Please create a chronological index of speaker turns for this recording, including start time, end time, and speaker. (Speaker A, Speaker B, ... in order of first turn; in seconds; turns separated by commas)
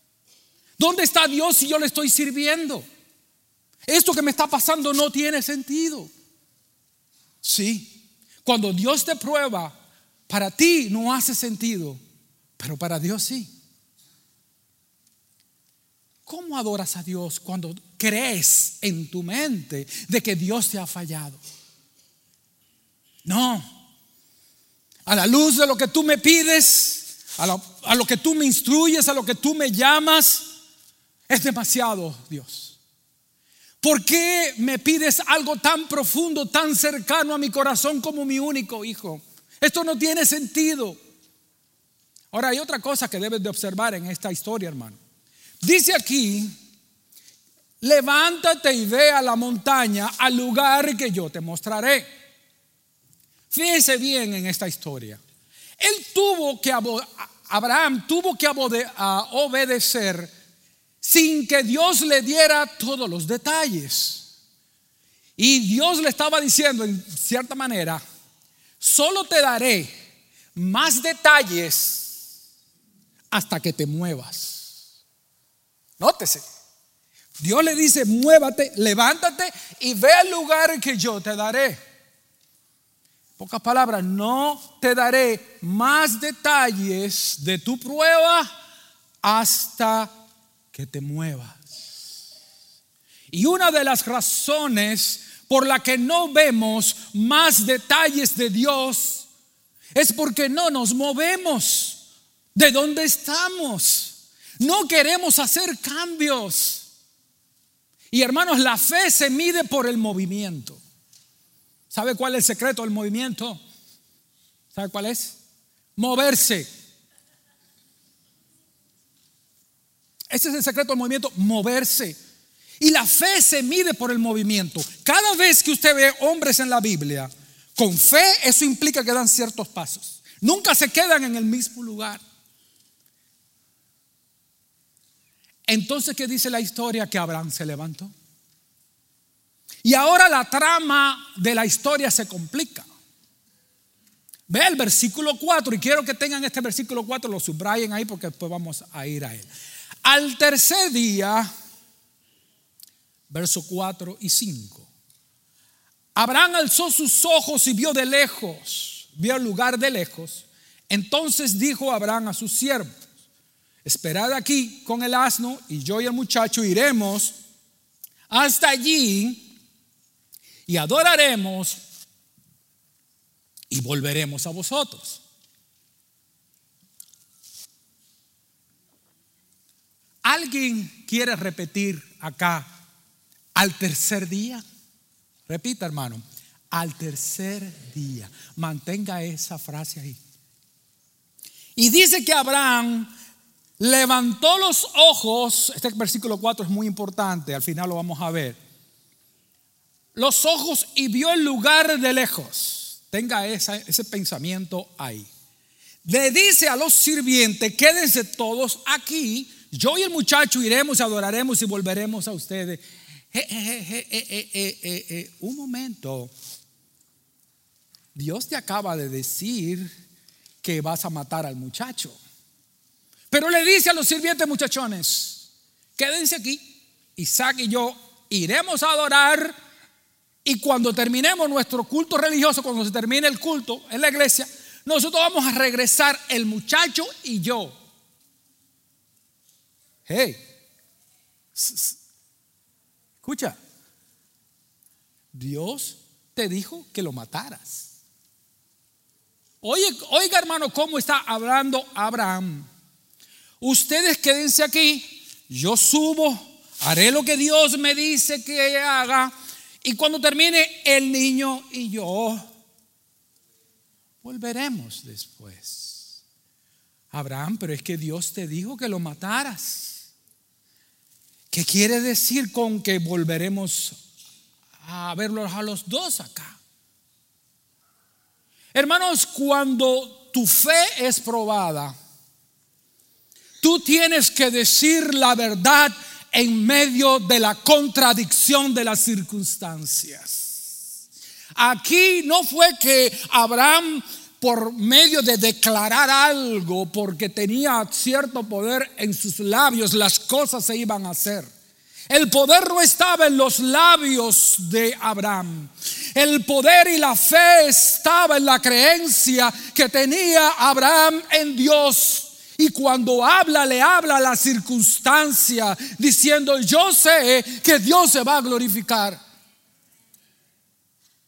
Speaker A: 0.8-2.8, Speaker A: 3.9-6.1, Speaker A: 7.4-9.8, Speaker A: 10.3-12.0, Speaker A: 12.6-13.5, Speaker A: 16.2-21.4, Speaker A: 23.2-23.8, Speaker A: 25.1-30.5, Speaker A: 31.3-32.8, Speaker A: 33.8-41.0, Speaker A: 42.3-45.0, Speaker A: 45.6-46.5, Speaker A: 47.8-52.1, Speaker A: 53.5-55.2, Speaker A: 55.8-60.3, Speaker A: 61.0-64.2, Speaker A: 65.4-68.0, Speaker A: 68.8-69.9, Speaker A: 70.5-72.2, Speaker A: 73.3-74.8, Speaker A: 76.0-76.4, Speaker A: 77.4-81.8, Speaker A: 83.4-88.5, Speaker A: 89.2-90.1, Speaker A: 90.7-91.8, Speaker A: 93.3-99.2, Speaker A: 99.9-102.0, Speaker A: 102.5-106.9, Speaker A: 108.1-110.8, Speaker A: 111.9-113.6, Speaker A: 114.7-115.4, Speaker A: 116.0-116.7, Speaker A: 120.3-122.2, Speaker A: 122.8-132.2, Speaker A: 135.7-138.1, Speaker A: 139.8-142.9, Speaker A: 144.5-149.5, Speaker A: 150.0-151.5, Speaker A: 153.3-154.9, Speaker A: 156.2-162.9, Speaker A: 163.8-167.3, Speaker A: 168.3-169.4, Speaker A: 170.7-171.8, Speaker A: 173.7-175.2, Speaker A: 180.2-182.7, Speaker A: 183.6-184.6, Speaker A: 185.5-190.2, Speaker A: 191.8-193.1, Speaker A: 193.8-198.6, Speaker A: 200.1-205.3, Speaker A: 206.0-216.3, Speaker A: 218.1-219.9, Speaker A: 220.6-222.2, Speaker A: 223.3-229.6, Speaker A: 230.4-237.8, Speaker A: 240.1-240.4, Speaker A: 241.5-242.0, Speaker A: 243.2-243.6, Speaker A: 245.3-247.9, Speaker A: 249.6-252.7, Speaker A: 253.6-262.4, Speaker A: 264.2-266.2, Speaker A: 267.1-270.1, Speaker A: 271.5-274.0, Speaker A: 274.8-276.6, Speaker A: 278.7-281.9, Speaker A: 283.6-290.6, Speaker A: 291.6-301.5, Speaker A: 302.1-319.2